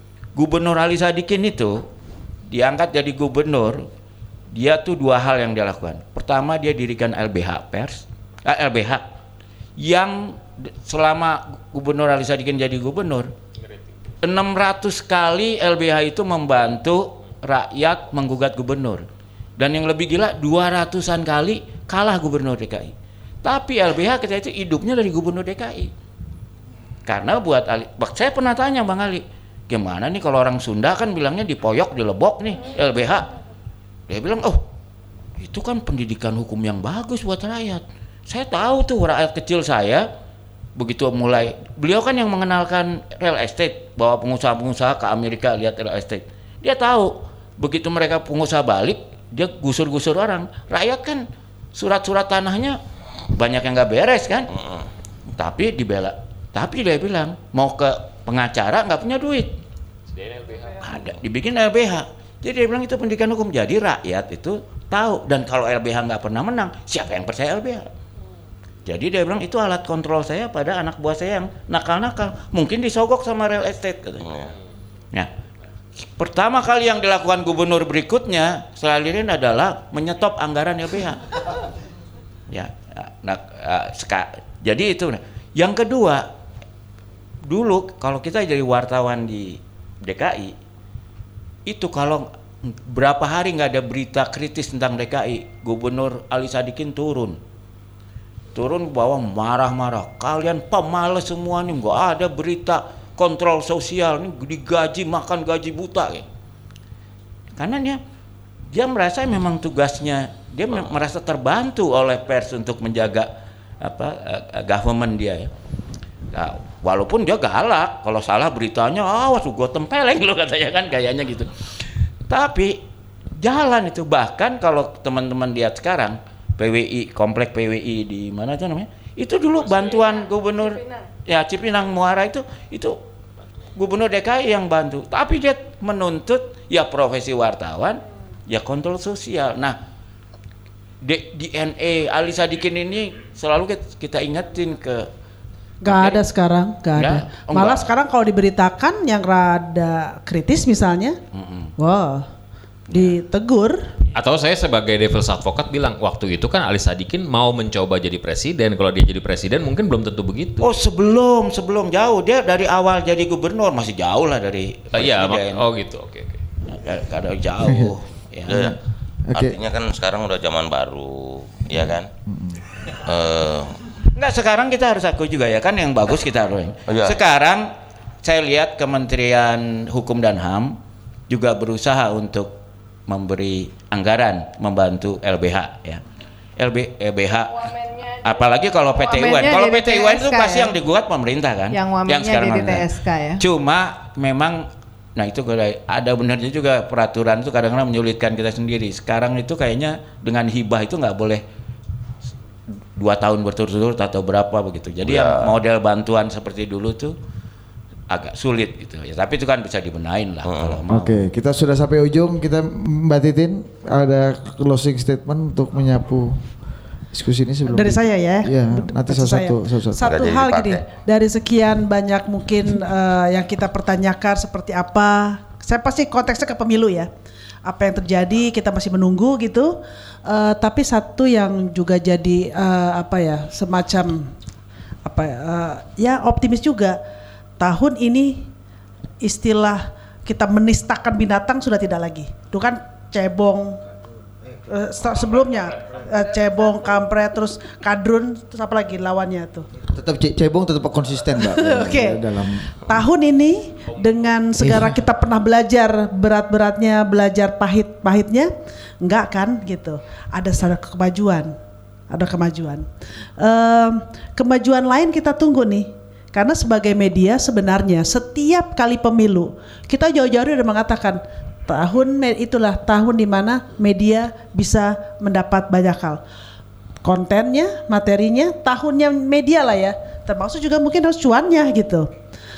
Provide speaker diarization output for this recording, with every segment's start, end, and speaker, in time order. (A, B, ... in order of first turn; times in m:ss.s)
0:00.4-0:01.8 A
0:02.5-0:03.8 A
0:04.5-0:09.0 A
0:09.8-0:13.3 A
0:14.2-0:19.0 A
0:19.6-0:22.9 A
0:23.4-0:25.9 A
0:27.0-0:33.3 A
0:34.1-0:34.6 A
0:35.4-0:40.1 A
0:40.8-0:52.8 A
0:53.3-0:54.5 A
0:54.6-0:54.8 B
0:55.3-0:59.5 A
1:00.1-1:01.0 C
1:00.8-1:07.9 A
1:08.8-1:14.3 A
1:14.2-1:14.5 B
1:16.2-1:21.3 A
1:22.5-1:26.2 A
1:27.4-1:30.5 A
1:31.6-1:37.4 A
1:38.5-1:46.3 A
1:47.6-1:48.0 A
1:48.7-1:53.3 A
1:53.8-1:55.5 A
1:56.3-2:01.6 A
2:02.3-2:02.8 A
2:03.4-2:13.0 A
2:09.9-2:11.1 D
2:13.8-2:19.8 A
2:21.0-2:25.1 A
2:25.8-2:31.2 E
2:25.8-2:26.2 A
2:26.9-2:27.9 A
2:31.3-2:31.7 A
2:31.8-2:32.3 E
2:32.9-2:33.8 E
2:34.1-2:40.7 C
2:40.6-2:45.6 A
2:44.9-2:46.4 C
2:46.7-2:48.7 A
2:47.6-2:47.9 F
2:48.5-2:48.8 B
2:49.3-2:49.6 F
2:49.3-2:52.1 B
2:52.3-2:52.6 F
2:53.0-2:53.8 B
2:54.1-2:57.7 A
2:56.9-2:57.2 B
2:58.2-3:00.8 A
3:01.3-3:02.6 A
3:03.1-3:06.0 A
3:06.6-3:07.7 A
3:07.6-3:10.7 D
3:08.2-3:12.9 A
3:11.7-3:13.4 D
3:13.4-3:21.4 A
3:23.0-3:27.1 A
3:25.0-3:25.6 B
3:28.1-3:31.2 A
3:30.4-3:30.8 B
3:30.9-3:36.4 F
3:37.1-3:40.2 F
3:37.7-3:47.1 E
3:40.1-3:40.8 B
3:47.6-3:54.3 E
3:55.0-3:57.0 E
3:57.6-3:58.5 E
3:59.2-4:03.8 E
4:04.7-4:09.7 E
4:09.8-4:12.7 F
4:11.4-4:12.2 E
4:12.8-4:18.5 E
4:14.6-4:15.0 F
4:19.0-4:21.5 E
4:22.1-4:22.9 E
4:23.4-4:36.2 E
4:37.0-4:42.1 E